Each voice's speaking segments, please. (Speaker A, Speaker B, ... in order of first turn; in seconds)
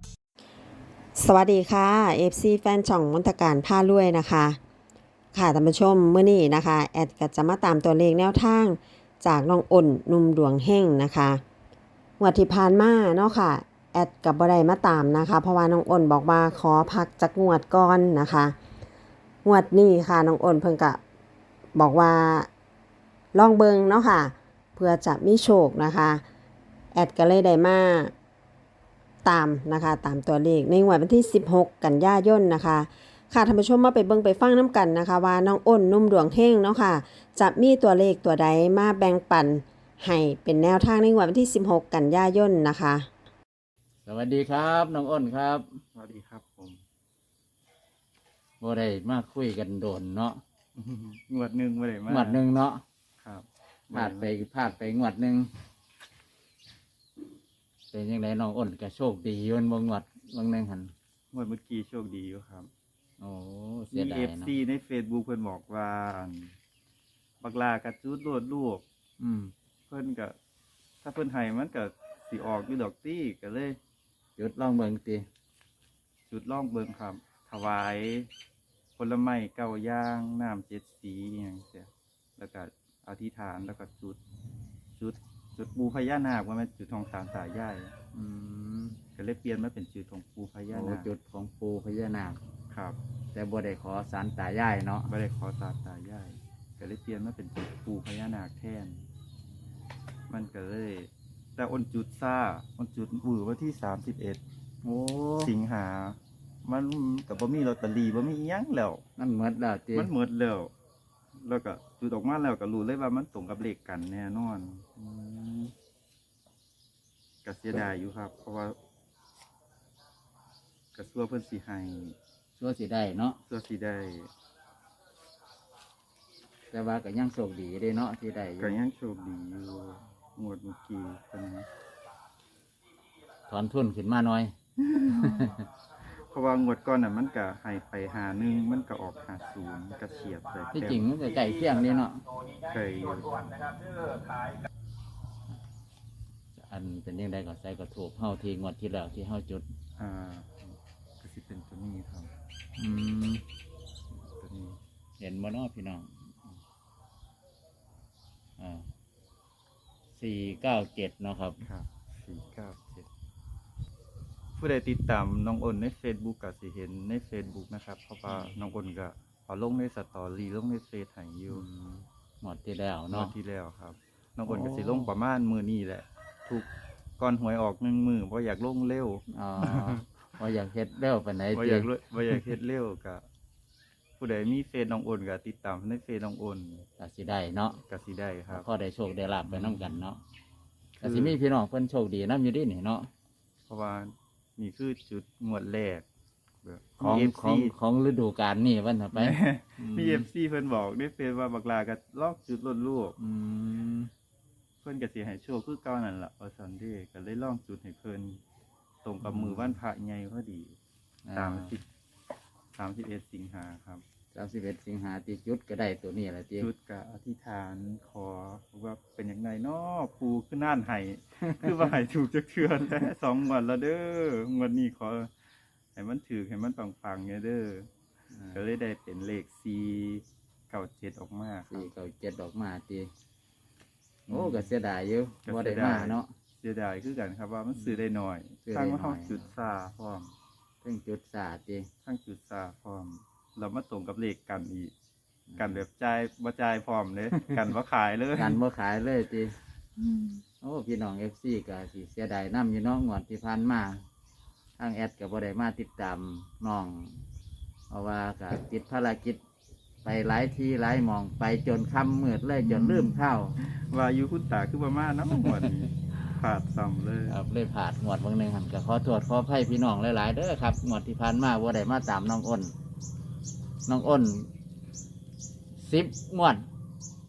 Speaker A: 1.1-4.6, 5.3-11.4, 12.2-18.6, 19.4-21.0, 21.7-22.5, 23.3-26.2, 26.9-28.1, 29.2-43.1
Speaker B: 44.0-45.8, 48.6-50.4, 52.1-52.8, 53.9-55.5, 57.9-60.9, 63.2-64.5, 69.2-69.5, 74.4-75.2, 88.1-89.0, 90.7-92.4, 93.3-95.1, 104.8-105.5, 109.2-110.1, 115.0-115.7, 122.6-123.4, 126.7-128.8, 133.5-134.5, 135.1-135.6, 140.7-142.2, 146.6-149.6, 152.8-153.4, 155.2-156.1, 158.6-158.9, 160.2-161.6, 171.5-173.3, 174.4-175.1, 179.3-181.9, 187.0-187.8, 188.5-190.2, 191.0-193.1, 197.0-200.2, 203.2-204.1, 209.2-209.8, 211.2-211.7, 214.3-216.7, 228.3-228.6, 231.7-233.1, 234.3-236.3, 238.6-239.4, 240.8-241.9, 245.5-245.8, 248.3-249.6, 250.6-254.0, 254.8-257.2, 257.9-259.4, 260.0-263.5, 265.3-265.7, 267.3-272.7, 273.9-274.5, 275.8-276.6
Speaker C: 45.9-46.8, 50.7-52.4, 53.2-54.3, 61.3-62.7, 63.9-66.5, 67.4-68.8, 69.9-70.3, 71.0-73.8, 76.3-78.3, 79.0-84.2, 85.0-87.9, 89.2-91.1, 92.7-93.0, 95.1-99.0, 100.3-104.4, 105.4-109.0, 109.9-110.7, 111.3-114.8, 117.4-118.8, 120.9-122.2, 123.5-124.3, 128.6-131.7, 134.8-135.5, 136.1-141.0, 142.6-143.7, 150.0-152.3, 154.2-154.8, 161.6-163.1, 164.6-171.7, 173.1-180.0, 181.5-183.2, 184.2-186.8, 187.9-188.7, 189.5-190.0, 191.0-191.4, 193.7-196.0, 196.6-197.8, 199.1-203.2, 204.8-208.4, 209.0-210.8, 211.3-211.8, 212.7-214.0, 216.6-225.3, 225.9-227.9, 228.5-231.9, 234.3-234.7, 235.4-240.3, 242.0-244.9, 245.6-248.6, 262.6-267.4